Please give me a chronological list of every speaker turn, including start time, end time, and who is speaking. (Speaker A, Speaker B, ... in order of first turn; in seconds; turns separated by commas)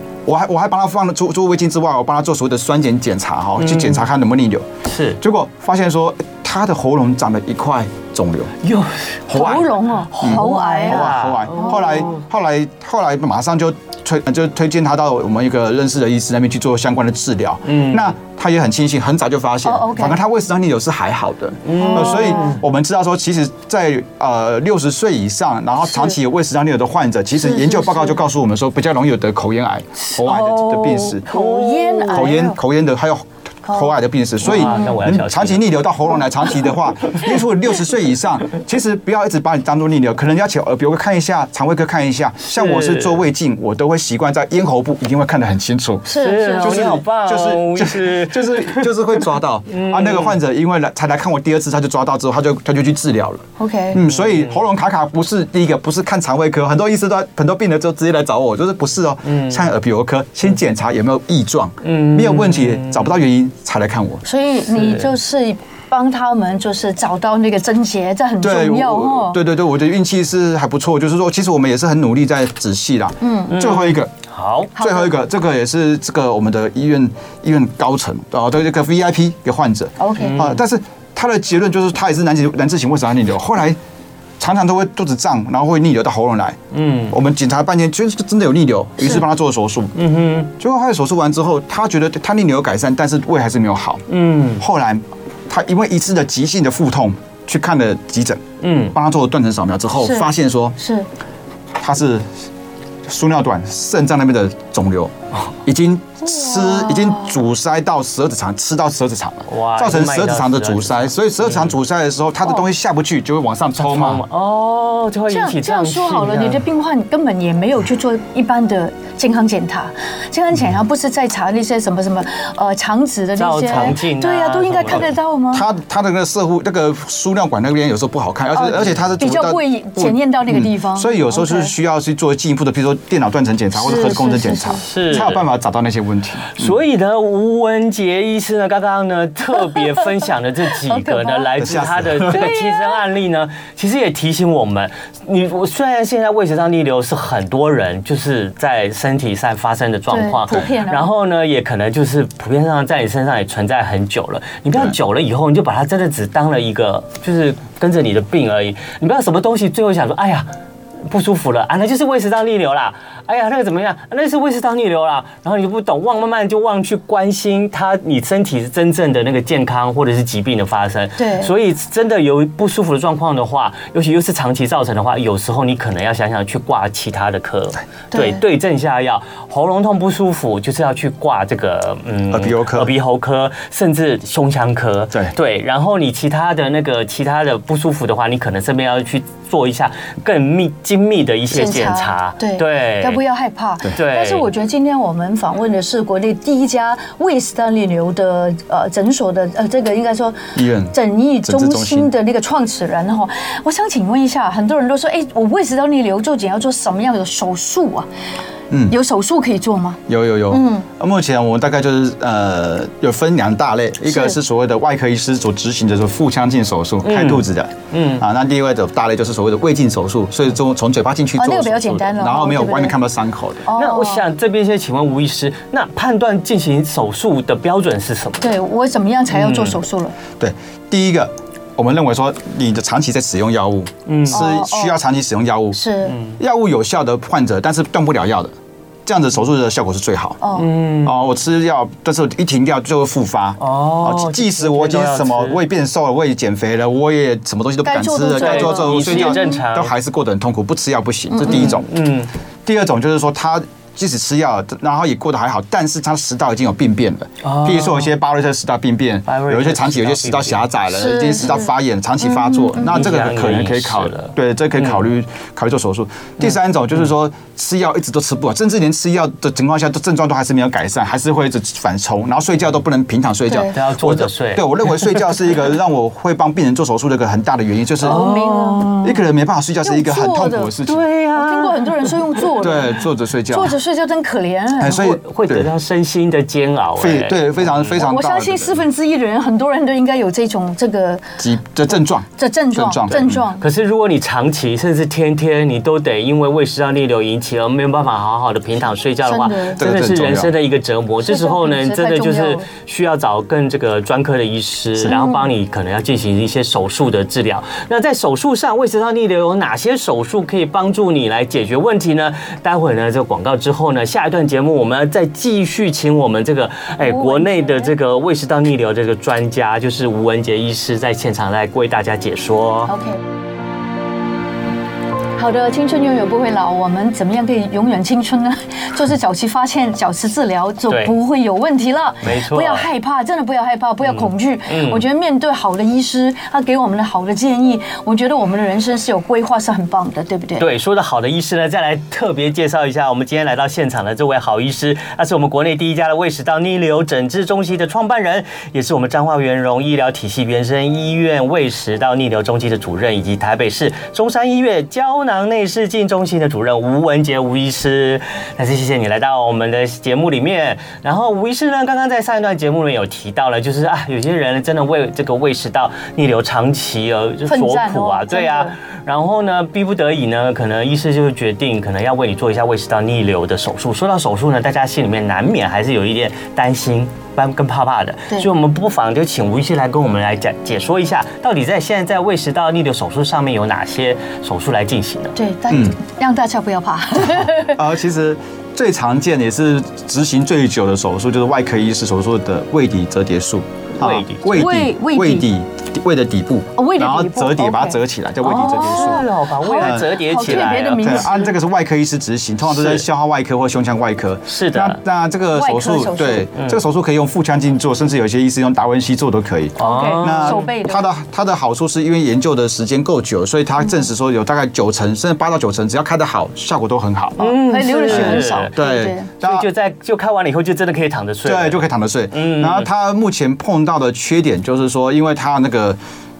Speaker A: 0.2-4.7, Speaker B: 3.6-4.1, Speaker B: 4.9-5.2, Speaker A: 5.2-8.5, Speaker B: 8.6-9.5, Speaker A: 9.3-31.2, Speaker C: 9.3-12.1, Speaker B: 10.1-12.2, Speaker B: 17.7-18.1, Speaker C: 19.6-20.2, Speaker B: 21.6-22.6, Speaker C: 21.8-22.6, Speaker C: 25.9-26.1, Speaker C: 27.4-28.2, Speaker C: 30.2-32.6, Speaker B: 31.3-32.3, Speaker A: 32.1-64.2, Speaker B: 34.4-35.7, Speaker C: 34.5-35.0, Speaker B: 42.4-43.2, Speaker C: 46.0-47.0, Speaker B: 46.2-48.9, Speaker B: 49.7-50.4, Speaker C: 53.6-54.0, Speaker B: 54.1-54.6, Speaker B: 59.3-59.6, Speaker B: 61.8-63.1, Speaker C: 64.2-69.4, Speaker A: 68.4-74.1, Speaker C: 73.2-73.5, Speaker B: 73.5-74.7, Speaker C: 74.8-75.1, Speaker A: 74.8-83.8, Speaker C: 80.0-80.5, Speaker B: 80.2-80.6, Speaker A: 84.4-86.6, Speaker B: 86.7-87.1, Speaker A: 87.1-90.0, Speaker B: 90.0-90.5, Speaker A: 90.6-94.0, Speaker B: 94.1-94.6, Speaker A: 94.6-100.8, Speaker B: 98.6-98.9, Speaker C: 100.0-101.1, Speaker A: 101.8-102.3, Speaker A: 103.0-114.2, Speaker C: 106.4-107.3, Speaker B: 109.5-111.7, Speaker B: 113.8-116.6, Speaker C: 115.3-125.7, Speaker B: 123.4-125.1, Speaker A: 124.9-136.7, Speaker C: 128.5-131.7, Speaker C: 133.7-134.8, Speaker B: 134.8-135.4, Speaker B: 136.5-160.5, Speaker C: 140.8-141.5, Speaker A: 141.6-142.5, Speaker C: 142.2-143.0, Speaker C: 150.1-151.1, Speaker B: 161.1-193.2, Speaker C: 171.2-171.5, Speaker C: 178.1-178.4, Speaker A: 182.3-182.9, Speaker C: 191.5-208.1, Speaker B: 193.9-194.5, Speaker A: 200.5-202.1, Speaker A: 208.7-208.9, Speaker C: 208.9-210.8, Speaker A: 210.1-223.7, Speaker C: 214.1-214.4, Speaker B: 217.0-218.2, Speaker C: 221.4-222.9, Speaker C: 223.7-224.2, Speaker B: 223.7-228.5, Speaker C: 228.4-230.1, Speaker B: 229.3-229.8, Speaker A: 230.4-235.8, Speaker B: 234.1-234.5, Speaker C: 234.3-235.0, Speaker C: 235.7-236.2, Speaker B: 236.1-236.3, Speaker A: 236.4-238.5, Speaker A: 239.1-240.4, Speaker C: 240.4-240.7, Speaker B: 240.6-241.2, Speaker A: 241.0-251.9, Speaker B: 243.6-245.6, Speaker C: 247.8-249.6, Speaker B: 248.3-249.9, Speaker C: 251.3-251.7, Speaker B: 251.4-252.3, Speaker A: 252.7-278.2, Speaker B: 257.4-258.1, Speaker B: 259.3-260.7, Speaker C: 260.9-261.7, Speaker C: 262.3-262.9, Speaker B: 262.8-265.0, Speaker C: 273.5-273.8, Speaker B: 273.7-275.2, Speaker C: 278.0-279.0, Speaker B: 278.0-279.2, Speaker A: 279.0-281.1, Speaker C: 279.8-280.7, Speaker B: 280.8-282.4, Speaker C: 281.3-285.1, Speaker A: 282.6-283.8, Speaker A: 284.8-285.7, Speaker B: 285.0-287.9, Speaker A: 287.0-288.8, Speaker C: 287.9-291.3, Speaker A: 291.4-293.4, Speaker C: 292.3-293.6, Speaker B: 293.6-322.9, Speaker C: 299.2-299.8, Speaker A: 299.8-300.5, Speaker C: 301.2-302.7, Speaker C: 305.1-305.5, Speaker C: 317.0-317.9, Speaker C: 322.9-323.2, Speaker C: 325.4-340.7, Speaker B: 332.2-332.9, Speaker B: 334.0-335.0, Speaker B: 340.6-385.3, Speaker C: 367.5-368.7, Speaker C: 385.4-387.8, Speaker A: 385.7-385.9, Speaker A: 387.3-399.3, Speaker B: 394.0-394.7, Speaker C: 394.5-395.5, Speaker C: 396.8-401.5, Speaker B: 398.5-401.3, Speaker A: 399.8-417.4, Speaker B: 402.6-403.0, Speaker B: 404.5-405.0, Speaker C: 405.5-406.5, Speaker B: 406.5-406.8, Speaker C: 409.8-411.1, Speaker B: 409.8-410.7, Speaker B: 417.4-418.7, Speaker C: 417.4-419.3, Speaker A: 418.1-419.7, Speaker B: 419.4-422.9, Speaker A: 421.4-426.0